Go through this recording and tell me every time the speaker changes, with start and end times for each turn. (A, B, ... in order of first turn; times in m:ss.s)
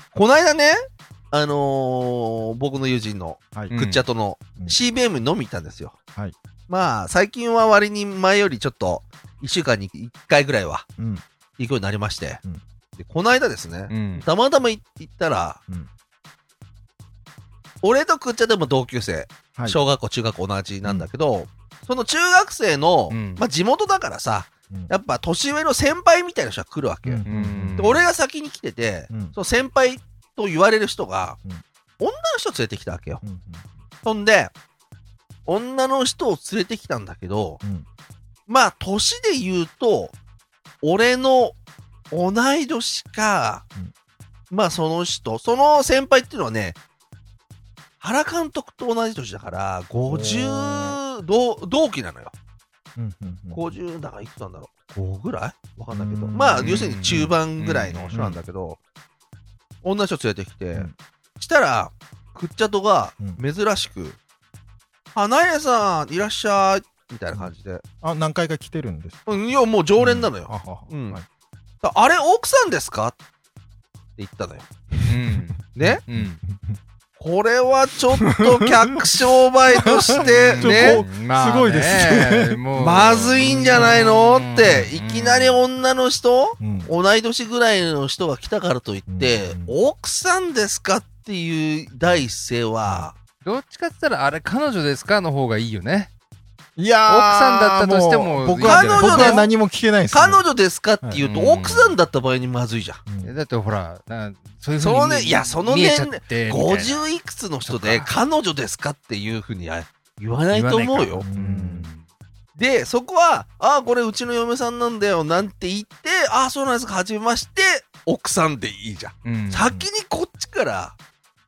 0:00.1-0:06.0 A
0:03.7-0:04.0 B
0:06.7-0:10.9 A
0:11.0-0:11.2 C
0:11.6-0:12.4 A
0:13.0-0:15.6 A
0:13.9-0:14.2 B
0:17.8-0:27.3 A
0:23.1-0:23.4 B
0:27.0-0:28.0 C
0:27.3-0:28.0 B
0:27.8-0:31.4 A
0:32.0-0:33.2 A
0:33.2-0:33.7 C
0:34.0-0:34.5 A
0:35.5-0:37.6 A
0:38.5-0:40.2 A
0:40.8-0:41.6 A
0:42.1-0:43.6 A
0:44.5-0:46.8 A
0:48.0-0:52.3 A
0:50.1-0:51.0 C
0:53.0-0:53.6 C
0:53.5-0:58.8 A
0:55.9-0:57.4 C
0:56.6-0:58.2 B
0:58.1-0:58.4 C
0:59.8-1:04.2 A
1:05.2-1:07.8 A
1:08.0-1:09.4 C
1:09.3-1:11.2 A
1:10.0-1:11.2 C
1:11.8-1:13.2 A
1:14.2-1:14.7 A
1:14.9-1:16.8 C
1:15.1-1:16.4 B
1:15.7-1:16.0 A
1:17.2-1:21.0 A
1:18.3-1:19.2 C
1:19.8-1:22.6 C
1:20.2-1:25.6 B
1:22.8-1:33.2 A
1:26.6-1:26.9 C
1:29.1-1:29.7 C
1:33.4-1:36.1 B
1:36.8-1:40.4 C
1:37.1-1:39.4 B
1:38.6-1:39.5 A
1:40.1-1:43.0 A
1:41.2-1:42.0 B
1:43.1-1:43.3 C
1:43.2-1:47.0 B
1:44.8-1:51.3 A
1:47.7-1:48.1 B
1:50.5-1:52.0 B
1:51.2-1:51.9 C
1:52.6-2:01.0 A
1:59.2-1:59.7 B